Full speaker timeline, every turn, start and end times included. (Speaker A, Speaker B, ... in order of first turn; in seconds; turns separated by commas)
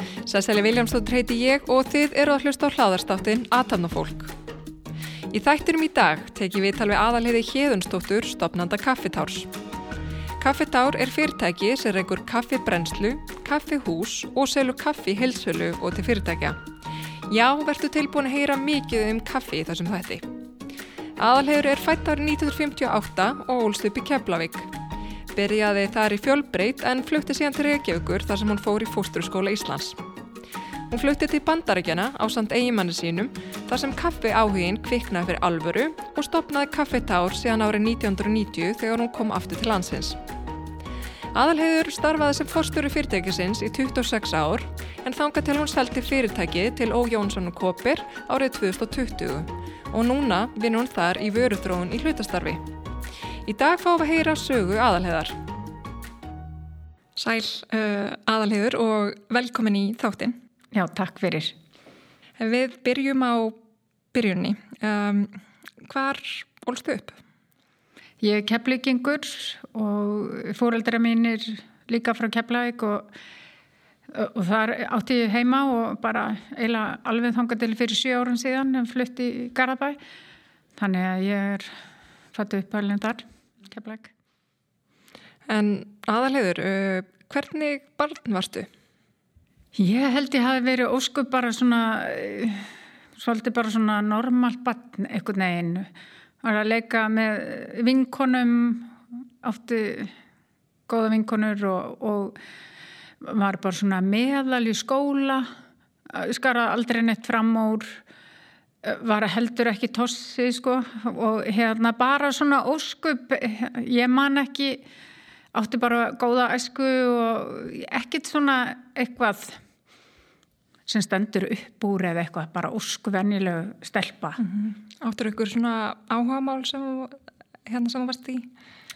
Speaker A: 0.2-4.3, Speaker A: 5.3-9.5, Speaker A: 10.4-16.6, Speaker A: 17.3-20.3, Speaker A: 21.2-24.7, Speaker A: 25.3-30.0, Speaker A: 30.9-40.2, Speaker A: 41.3-52.7, Speaker A: 53.4-55.4, Speaker A: 57.1-60.4, Speaker B: 60.7-61.5, Speaker A: 62.4-63.6, Speaker A: 64.1-67.2, Speaker B: 68.2-73.1, Speaker B: 74.1-80.0, Speaker B: 80.8-81.7, Speaker B: 82.3-84.1, Speaker A: 85.5-88.7, Speaker B: 89.7-95.9, Speaker B: 96.4-100.1, Speaker B: 100.9-102.4, Speaker B: 103.2-105.5, Speaker B: 106.1-108.0, Speaker B: 108.8-114.8, Speaker B: 115.5-119.6, Speaker B: 120.9-124.4, Speaker A: 124.4-128.5